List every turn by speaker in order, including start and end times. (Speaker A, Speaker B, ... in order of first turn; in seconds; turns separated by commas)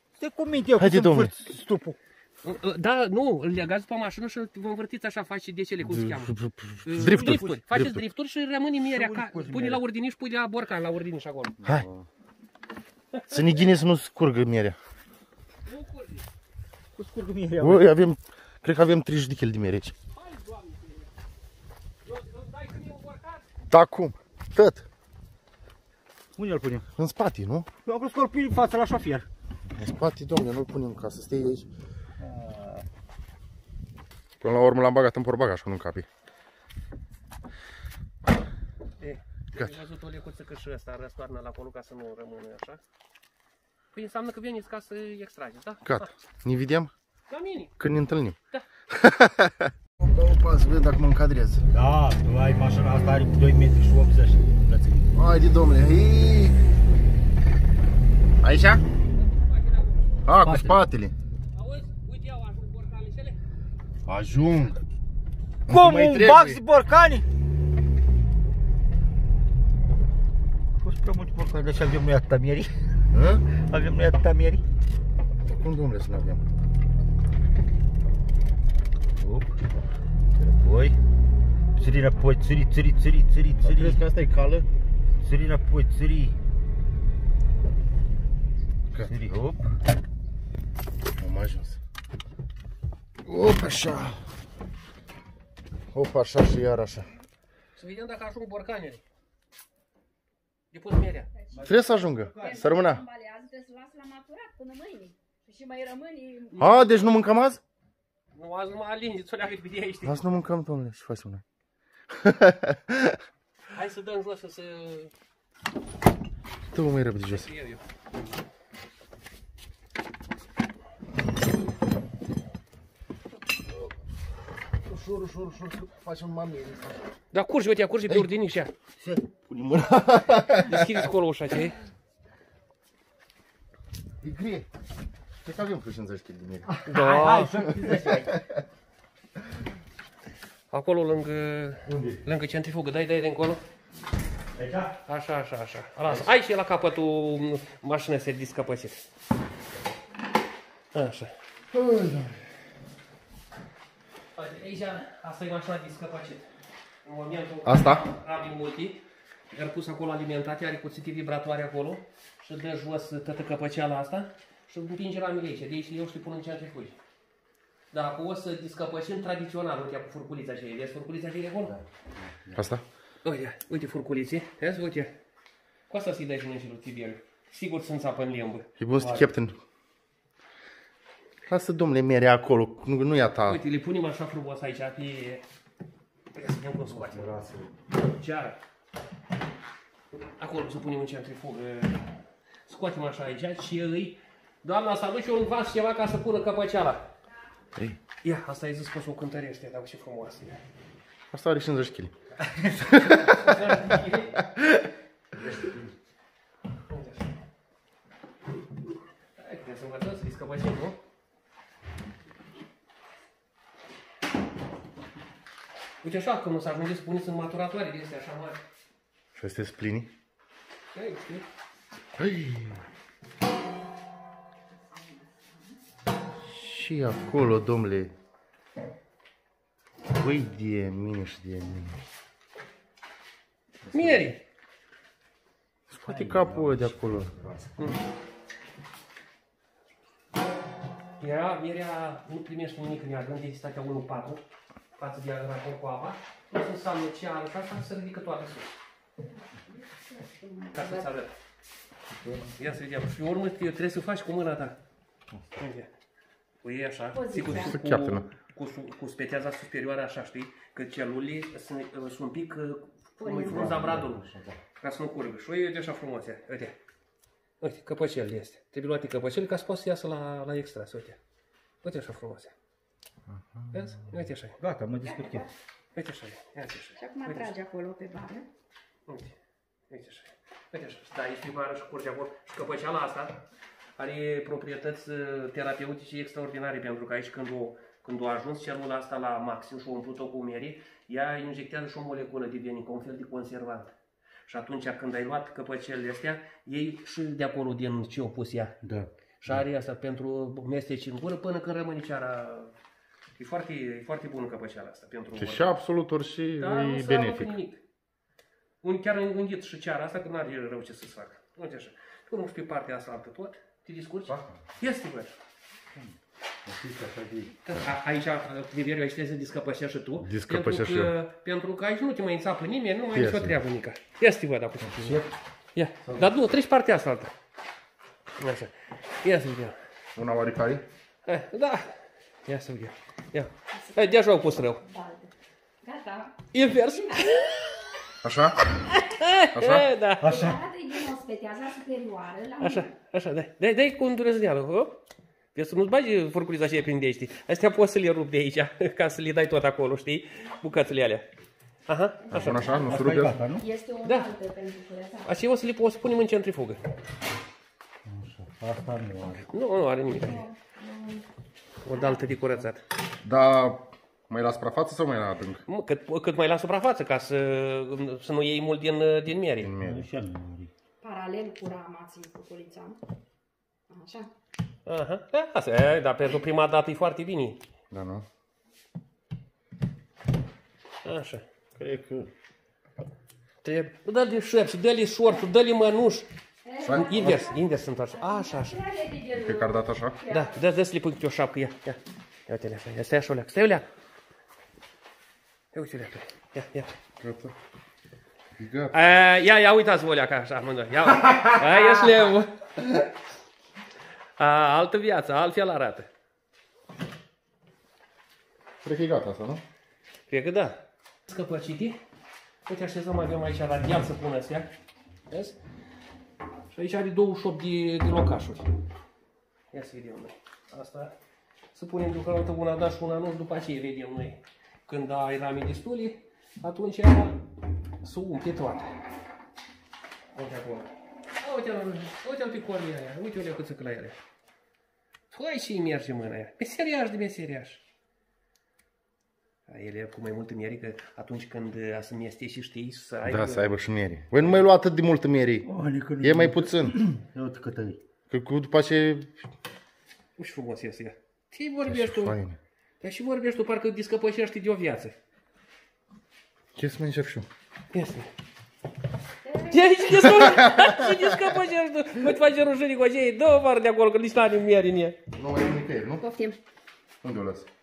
Speaker A: 0.2-2.0, Speaker B: 0.8-1.3, Speaker C: 2.4-11.6, Speaker B: 5.8-8.0, Speaker A: 7.0-7.6, Speaker A: 8.9-9.8, Speaker A: 11.6-12.1, Speaker C: 13.1-13.6, Speaker B: 13.3-14.8, Speaker C: 15.7-16.3, Speaker A: 16.9-17.9, Speaker B: 17.6-19.9, Speaker C: 20.1-21.1, Speaker C: 22.0-23.5, Speaker B: 23.7-24.9, Speaker A: 26.4-26.9, Speaker B: 27.0-27.7, Speaker A: 27.8-29.3, Speaker B: 29.7-31.7, Speaker A: 32.2-32.8, Speaker B: 34.4-36.0, Speaker C: 39.0-42.8, Speaker C: 43.9-46.1, Speaker B: 45.8-46.9, Speaker C: 47.3-47.8, Speaker B: 47.8-48.4, Speaker B: 48.9-51.6, Speaker A: 51.7-55.1, Speaker B: 55.1-56.6, Speaker B: 58.4-58.8, Speaker C: 59.2-60.2, Speaker B: 60.2-61.1, Speaker A: 60.4-60.8, Speaker C: 61.5-63.4, Speaker B: 64.0-64.8, Speaker B: 65.7-66.6, Speaker A: 65.7-67.2, Speaker A: 70.8-72.7, Speaker B: 73.1-73.4, Speaker A: 73.5-74.6, Speaker B: 75.5-76.4, Speaker A: 79.2-79.5, Speaker A: 80.4-81.0, Speaker A: 81.8-84.0, Speaker B: 83.6-84.7, Speaker A: 85.2-86.3, Speaker A: 89.0-89.6, Speaker B: 91.2-91.8, Speaker B: 93.2-94.2, Speaker B: 95.9-97.1, Speaker C: 97.8-99.0, Speaker C: 100.7-101.3, Speaker D: 101.4-101.7, Speaker A: 101.5-102.7, Speaker B: 101.6-103.0, Speaker D: 102.4-107.1, Speaker B: 106.6-107.6, Speaker C: 108.3-110.2, Speaker B: 110.0-111.4, Speaker B: 112.1-113.2, Speaker C: 113.7-115.1, Speaker B: 116.7-117.5, Speaker C: 117.2-117.8, Speaker B: 124.8-127.0, Speaker C: 127.3-128.7, Speaker B: 129.4-131.0, Speaker C: 130.6-131.8, Speaker B: 134.2-134.7, Speaker B: 135.4-136.7, Speaker A: 136.7-138.4, Speaker C: 136.8-137.7, Speaker B: 137.9-138.6, Speaker C: 140.7-143.6, Speaker A: 141.9-142.2, Speaker A: 144.5-144.9, Speaker C: 145.1-149.0, Speaker C: 150.9-151.3, Speaker B: 151.7-152.3, Speaker C: 154.3-156.5, Speaker C: 157.0-167.0, Speaker B: 157.6-158.0, Speaker C: 167.9-171.7, Speaker A: 171.7-172.6, Speaker B: 172.5-172.8, Speaker C: 173.2-175.2, Speaker C: 175.9-178.7, Speaker B: 178.8-179.6, Speaker A: 178.9-179.3, Speaker B: 181.4-183.6, Speaker C: 183.4-185.4, Speaker C: 186.3-187.3, Speaker A: 186.9-187.8, Speaker C: 188.1-188.6, Speaker C: 190.4-192.1, Speaker C: 192.7-197.0, Speaker C: 198.2-200.6, Speaker B: 201.3-202.1, Speaker A: 202.5-202.8, Speaker B: 202.8-203.7, Speaker C: 203.0-204.4, Speaker B: 204.4-204.9, Speaker A: 205.3-205.9, Speaker C: 206.9-207.3, Speaker C: 209.4-211.0, Speaker C: 216.0-218.6, Speaker B: 219.3-220.1, Speaker C: 220.9-221.4, Speaker B: 222.2-222.8, Speaker B: 226.4-228.1, Speaker B: 230.1-232.0, Speaker A: 233.8-234.3, Speaker C: 233.9-234.4, Speaker B: 235.9-237.3, Speaker A: 236.1-237.8, Speaker C: 241.2-244.4, Speaker C: 244.9-248.7, Speaker D: 249.7-251.1, Speaker C: 250.7-251.3, Speaker A: 252.2-252.5, Speaker C: 252.6-254.8, Speaker C: 255.6-255.9, Speaker C: 256.6-264.2, Speaker D: 257.1-257.8, Speaker B: 257.4-258.3, Speaker D: 263.2-263.9, Speaker A: 263.4-264.6, Speaker C: 264.8-266.8, Speaker C: 267.6-271.2, Speaker C: 271.8-272.5, Speaker B: 273.3-274.1, Speaker C: 273.7-274.6, Speaker A: 274.6-275.5, Speaker D: 275.0-275.4, Speaker C: 275.9-277.5, Speaker D: 277.0-278.5, Speaker C: 279.1-279.3, Speaker C: 279.9-283.4, Speaker C: 284.0-293.9, Speaker C: 294.5-298.8, Speaker A: 298.8-299.1, Speaker C: 299.4-302.7, Speaker C: 303.4-305.7, Speaker B: 305.4-307.6, Speaker C: 306.6-307.8, Speaker C: 308.8-315.4, Speaker A: 315.9-317.6, Speaker C: 317.6-325.2, Speaker B: 320.2-321.1, Speaker B: 323.1-323.6, Speaker A: 324.9-325.3, Speaker C: 325.7-327.3, Speaker C: 328.4-329.8, Speaker B: 330.1-330.8, Speaker C: 331.2-331.9, Speaker C: 332.4-334.8, Speaker D: 333.7-334.1, Speaker D: 334.8-337.3, Speaker C: 336.5-337.8, Speaker B: 338.2-338.6, Speaker C: 338.9-340.3, Speaker B: 339.5-339.9, Speaker A: 340.2-340.6, Speaker D: 340.2-342.9, Speaker C: 342.6-345.0, Speaker C: 345.5-351.3, Speaker C: 351.9-352.8, Speaker D: 352.2-353.1, Speaker B: 352.3-353.4, Speaker A: 352.8-353.6, Speaker D: 353.6-355.3, Speaker C: 354.0-354.3, Speaker C: 355.2-356.8, Speaker A: 358.0-359.4, Speaker C: 359.5-360.4, Speaker D: 360.1-361.2, Speaker C: 361.8-362.8, Speaker D: 361.9-362.2, Speaker B: 363.2-365.6, Speaker C: 365.7-369.7, Speaker B: 369.6-370.1, Speaker A: 369.8-370.7, Speaker D: 371.0-373.0, Speaker D: 373.9-374.3, Speaker C: 374.9-377.6, Speaker B: 377.9-378.3, Speaker C: 381.0-381.4, Speaker B: 381.8-382.3, Speaker C: 383.6-386.3, Speaker D: 386.6-387.6, Speaker B: 386.8-387.5, Speaker C: 386.9-388.9, Speaker D: 388.1-390.5, Speaker B: 389.3-390.2, Speaker C: 390.3-393.9, Speaker C: 395.7-396.9, Speaker B: 397.2-397.5, Speaker B: 398.6-398.9, Speaker C: 398.9-402.7, Speaker B: 401.3-401.7, Speaker C: 404.4-406.1, Speaker B: 408.8-409.6, Speaker C: 410.3-412.0, Speaker C: 412.6-414.7, Speaker C: 415.3-415.6, Speaker C: 416.7-418.7, Speaker C: 419.7-421.1, Speaker C: 421.7-427.4, Speaker C: 428.0-429.0, Speaker C: 430.3-434.1, Speaker C: 435.3-437.8, Speaker C: 439.7-443.7, Speaker B: 443.2-445.7, Speaker C: 444.4-444.7, Speaker A: 445.6-448.0, Speaker B: 446.2-447.0, Speaker B: 448.3-449.4, Speaker C: 450.4-452.4, Speaker B: 451.8-452.6, Speaker C: 453.0-455.1, Speaker B: 456.8-457.5, Speaker C: 457.9-458.3, Speaker D: 459.4-461.0, Speaker C: 459.7-465.2, Speaker B: 460.4-461.0, Speaker B: 465.3-466.2, Speaker D: 466.2-466.6, Speaker B: 467.2-467.7